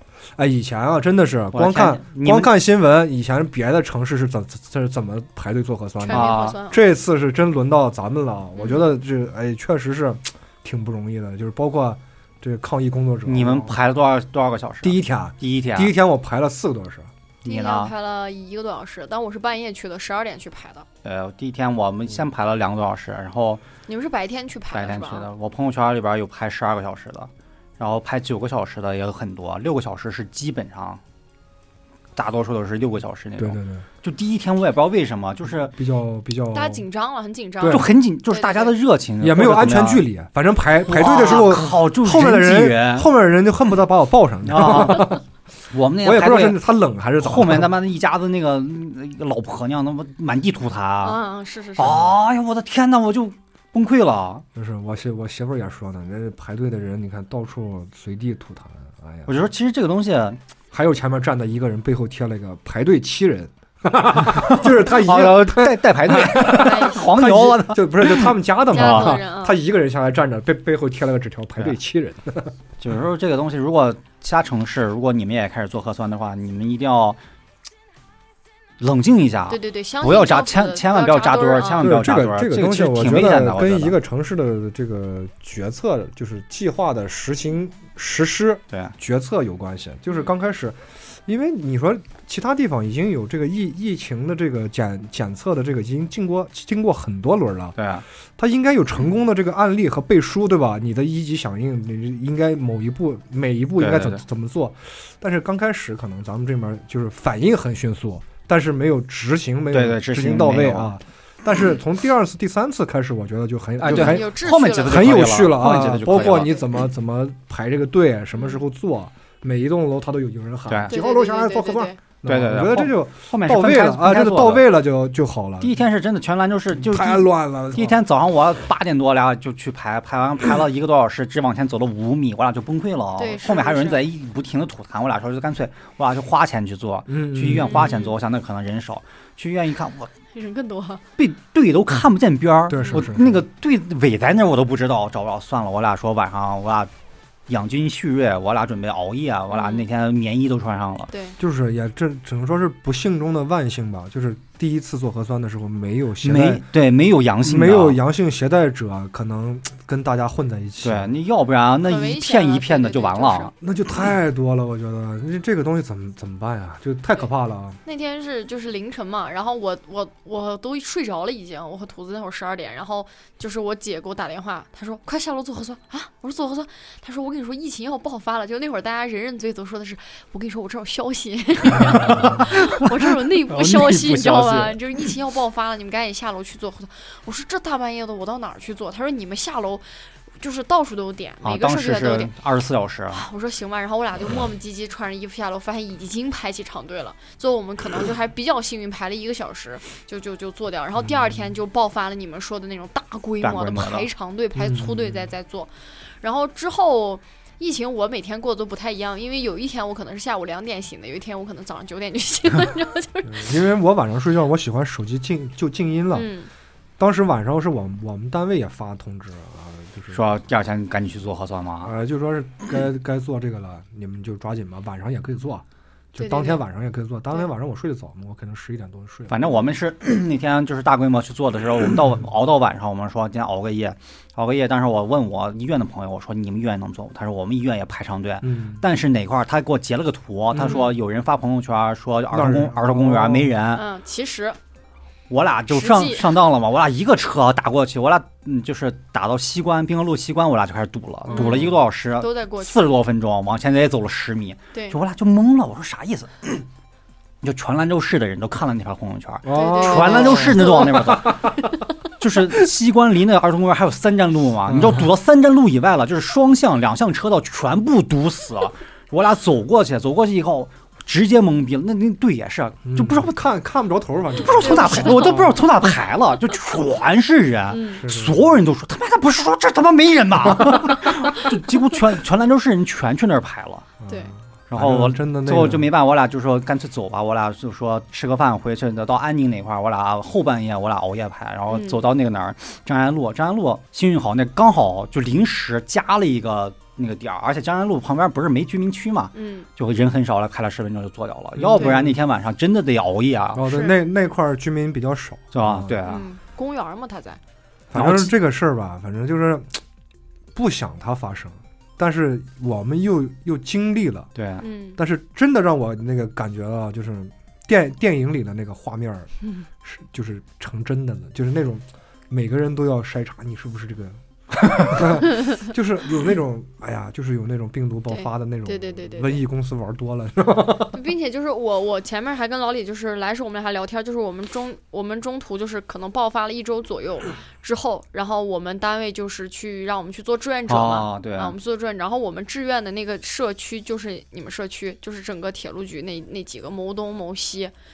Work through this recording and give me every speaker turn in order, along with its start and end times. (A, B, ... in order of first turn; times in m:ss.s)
0:00.4-0:13.8 A
0:01.5-0:02.5 B
0:06.0-0:07.0 C
0:06.1-0:06.6 B
0:08.6-0:08.9 C
0:13.3-0:15.9 B
0:14.8-0:17.1 A
0:17.4-0:17.9 B
0:17.4-0:20.9 C
0:21.0-0:23.6 B
0:23.9-0:25.3 C
0:24.7-0:31.0 B
0:32.2-0:35.8 B
0:33.4-0:33.9 A
0:35.7-0:36.8 A
0:36.5-0:38.8 C
0:37.6-0:37.9 A
0:37.6-0:40.1 B
0:39.2-0:45.2 A
0:40.8-0:43.1 B
0:44.4-0:45.2 B
0:45.7-0:46.6 B
0:46.0-0:47.7 A
0:47.2-0:51.2 B
0:51.0-0:52.2 C
0:51.8-0:54.4 B
0:54.6-0:59.3 A
0:59.3-1:00.4 B
1:00.7-1:12.5 A
1:04.2-1:09.2 B
1:06.4-1:07.2 C
1:08.7-1:09.6 C
1:12.8-1:17.2 B
1:18.8-1:24.0 B
1:19.5-1:22.0 C
1:21.8-1:37.8 A
1:37.8-1:38.0 B
1:38.4-2:05.8 A
1:43.8-1:44.2 B
1:49.7-1:50.9 B
1:53.8-1:56.7 B
1:53.8-1:55.4 C
1:56.1-1:56.5 C
2:00.7-2:01.0 B
2:00.9-2:02.0 C
2:02.2-2:04.7 B
2:05.6-2:20.1 B
2:06.8-2:08.0 A
2:13.2-2:14.0 C
2:17.1-2:17.9 A
2:17.5-2:18.1 C
2:20.3-2:21.0 C
2:21.2-2:26.9 B
2:22.7-2:23.4 A
2:22.8-2:23.0 C
2:27.5-2:31.1 B
2:29.5-2:29.9 C
2:31.1-2:31.4 C
2:31.4-2:36.6 A
2:36.2-2:38.0 B
2:37.4-2:41.1 A
2:40.8-2:43.5 B
2:41.8-2:43.5 C
2:43.6-2:47.8 A
2:47.8-3:09.9 C
3:01.7-3:02.4 A
3:01.9-3:04.8 B
3:10.4-3:12.3 C
3:11.4-3:13.2 B
3:13.1-3:33.5 C
3:21.0-3:21.4 A
3:23.4-3:24.1 B
3:24.5-3:25.3 A
3:33.2-3:36.3 A
3:36.1-3:36.5 C
3:37.0-3:40.2 A
3:40.1-3:41.9 B
3:41.8-3:49.5 A
3:46.2-3:46.6 C
3:49.3-4:03.8 B
3:58.4-3:58.8 A
4:00.5-4:00.8 A
4:02.3-4:03.5 A
4:03.7-4:04.6 C
4:05.3-4:16.7 B
4:05.7-4:06.4 C
4:11.3-4:11.8 A
4:11.3-4:12.9 C
4:14.7-4:15.0 C
4:17.4-4:21.5 B
4:19.4-4:21.5 A
4:19.5-4:21.3 C
4:22.2-4:33.3 B
4:24.7-4:25.1 A
4:32.8-4:35.6 A
4:34.4-4:43.9 B
4:34.6-4:35.6 C
4:37.7-4:38.1 C
4:38.0-4:38.6 A
4:44.0-4:45.9 A
4:44.1-4:44.3 C
4:44.7-5:03.7 B
4:51.7-4:52.1 C
4:59.4-4:59.7 C
5:01.6-5:02.2 A
5:03.5-5:06.0 A
5:03.7-5:04.0 C
5:05.5-5:06.3 B
5:06.1-5:07.4 C
5:07.9-5:09.8 A
5:07.9-5:08.3 B
5:10.5-5:14.3 A
5:14.4-5:14.6 B
5:14.6-5:15.0 C
5:15.0-5:19.3 A
5:19.8-5:31.0 A
5:28.1-5:29.4 C
5:30.9-5:47.7 C
5:40.7-5:41.6 B